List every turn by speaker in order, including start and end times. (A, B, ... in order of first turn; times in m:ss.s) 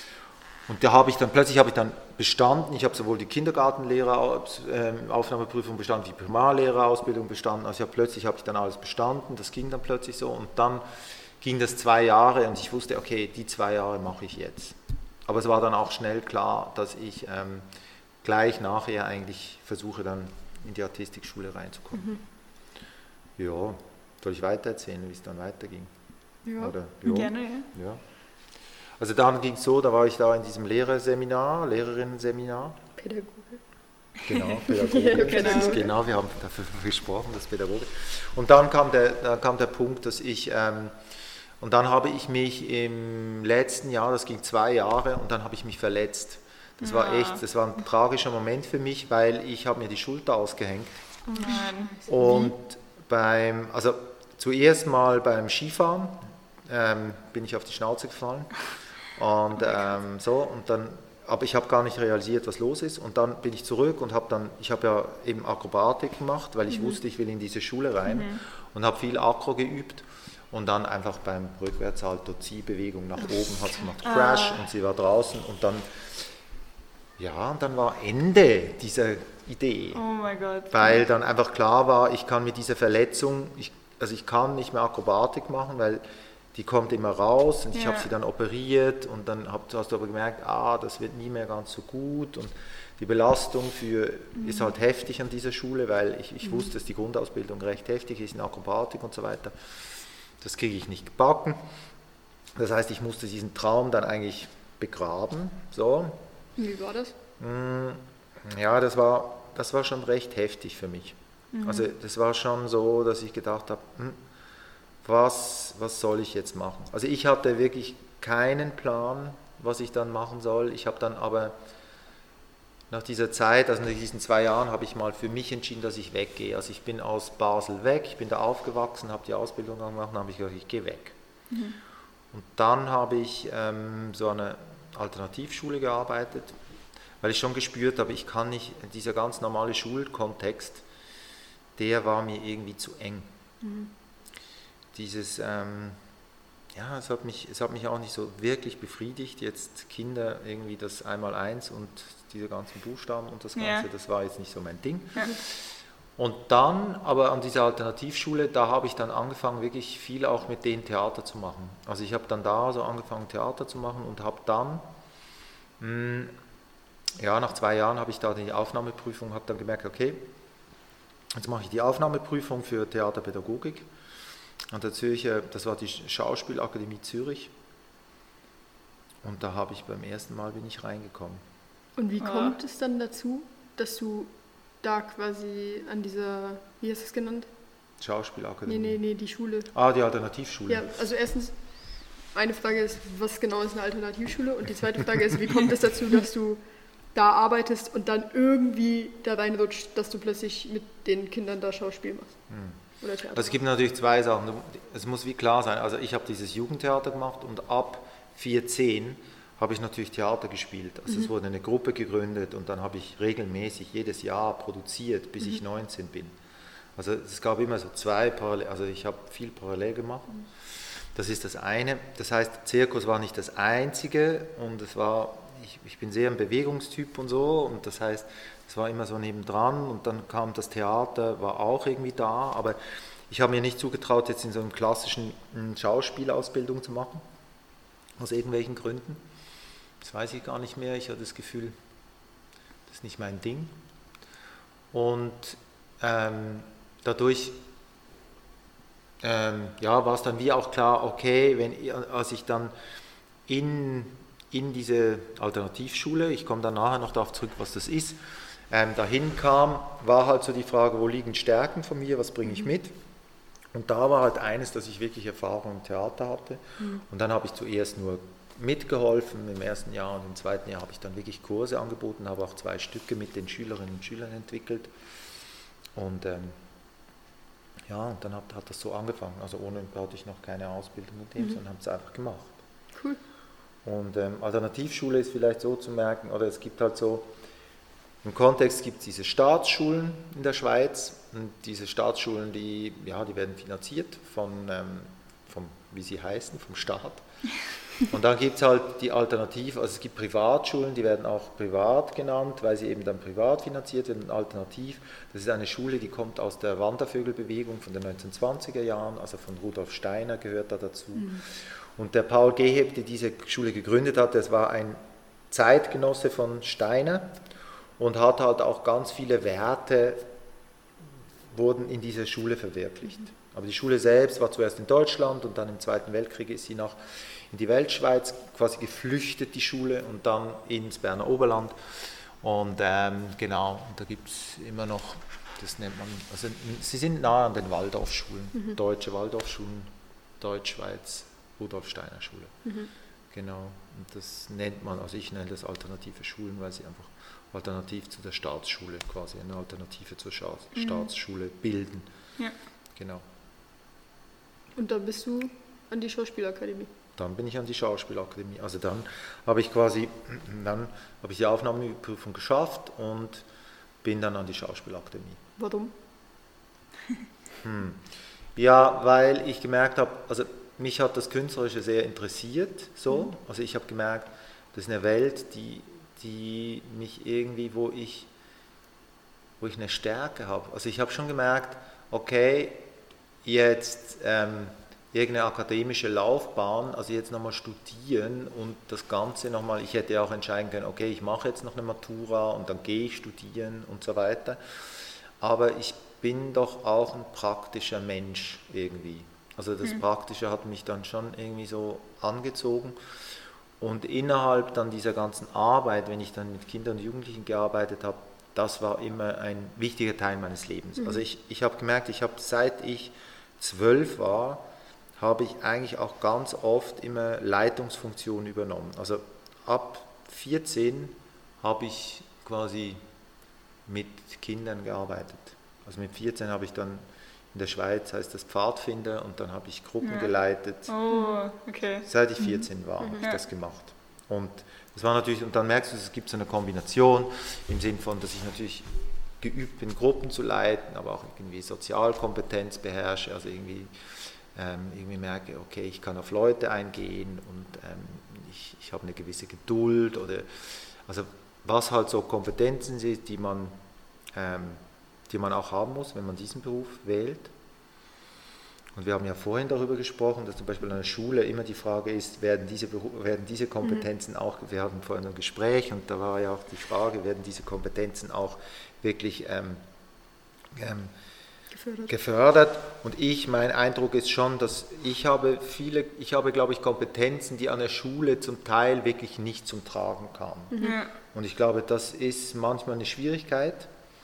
0:00.7-0:10.8 A
0:11.4-0:17.6 A
0:18.2-0:22.1 A
0:21.9-0:22.2 B
0:23.4-0:25.9 A
0:26.4-0:26.7 B
0:26.6-0:28.0 A
0:27.0-0:27.7 C
0:29.0-0:32.8 A
0:33.0-0:33.6 B
0:34.2-0:40.9 A
0:34.7-0:35.9 B
0:35.1-0:35.8 C
0:41.6-0:51.0 A
0:46.8-0:47.4 C
0:51.3-0:52.5 C
0:51.4-0:51.9 B
0:52.1-0:58.5 A
0:59.1-1:16.3 A
1:08.0-1:08.4 C
1:14.0-1:14.6 C
1:17.2-1:20.0 A
1:19.9-1:21.0 C
1:20.7-1:26.0 A
1:26.5-1:39.5 A
1:27.7-1:28.1 C
1:40.4-1:41.6 A
1:42.6-1:46.2 A
1:46.6-1:47.1 B
1:47.4-1:54.2 A
1:51.6-1:51.8 B
1:55.0-2:01.6 A
2:02.9-2:11.2 A
2:11.5-2:11.8 C
2:12.3-2:16.6 A
2:17.2-2:20.8 A
2:21.8-2:23.3 A
2:23.6-2:23.9 B
2:24.9-2:26.0 A
2:26.7-2:35.3 A
2:33.6-2:33.8 C
2:36.2-2:44.8 A
2:45.8-2:46.3 A
2:47.2-2:50.3 A
2:51.3-2:53.9 A
2:54.7-2:57.5 A
2:59.2-3:01.4 A
3:02.0-3:04.3 B
3:02.2-3:02.6 C
3:04.8-3:07.5 B
3:08.0-3:09.0 A
3:08.6-3:09.7 B
3:09.7-3:10.9 A
3:10.7-3:11.5 B
3:12.3-3:16.6 B
3:17.1-3:22.3 B
3:22.5-3:22.8 A
3:23.0-3:23.6 B
3:23.3-3:36.3 A
3:37.0-3:40.4 A
3:41.1-3:52.8 A
3:53.3-3:57.2 A
3:58.2-3:59.2 A
4:00.0-4:01.8 A
4:02.9-4:03.7 A
4:04.9-4:07.6 A
4:09.2-4:12.7 A
4:13.5-4:18.2 A
4:18.7-4:22.9 A
4:23.7-4:34.9 A
4:35.9-4:36.6 A
4:37.9-4:42.5 A
4:43.8-4:47.3 A
4:48.2-4:57.2 A
4:58.0-5:15.0 A
5:11.2-5:11.4 B
5:15.5-5:17.4 A
5:18.0-5:20.2 A
5:21.5-5:27.0 A
5:27.5-5:42.5 A
5:42.6-5:42.9 B
5:43.3-5:52.1 A
5:50.7-5:51.1 C
5:53.0-5:53.2 A
5:54.8-5:56.9 B
5:57.2-6:03.4 A
6:04.0-6:05.4 A
6:05.6-6:05.9 B
6:07.6-6:08.0 A
6:08.5-6:18.3 A
6:19.6-6:22.8 A
6:23.4-6:43.0 A
6:43.8-6:54.6 A
6:55.2-7:03.0 A
7:03.8-7:10.9 A
7:10.0-7:10.3 C
7:10.9-7:12.0 C
7:11.1-7:11.4 B
7:12.0-7:23.9 A
7:24.5-7:30.5 A
7:31.0-7:33.8 A
7:34.3-7:37.5 A
7:38.9-7:49.8 A
7:50.7-7:51.1 A
7:51.7-7:52.1 B
7:52.1-8:00.8 A
8:00.7-8:01.0 B
8:00.8-8:01.1 C
8:01.3-8:03.9 A